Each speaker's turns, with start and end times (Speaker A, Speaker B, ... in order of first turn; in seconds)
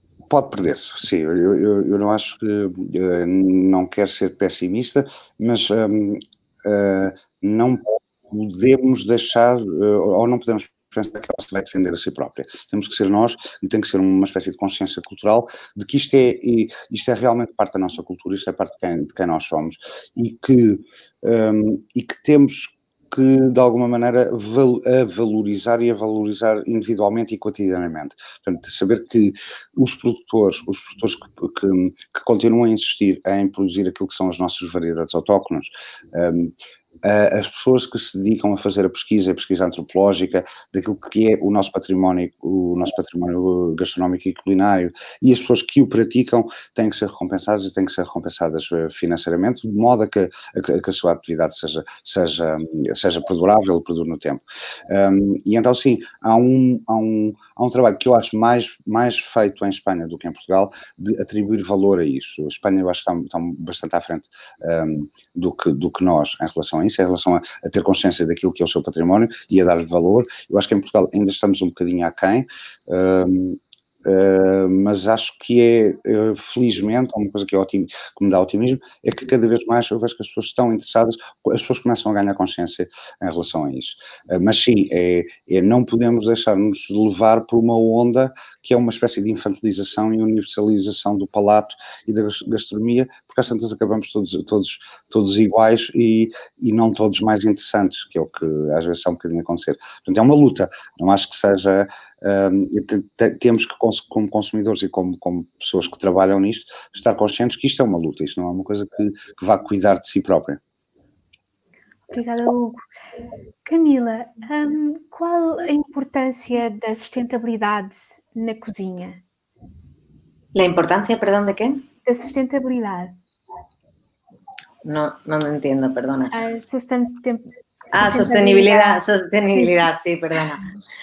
Speaker A: 0.3-110.6
Speaker B: 112.1-112.8, 113.6-119.2, 122.0-123.1, 126.3-129.0
Speaker C: 120.5-121.8, 124.8-126.4, 127.9-130.6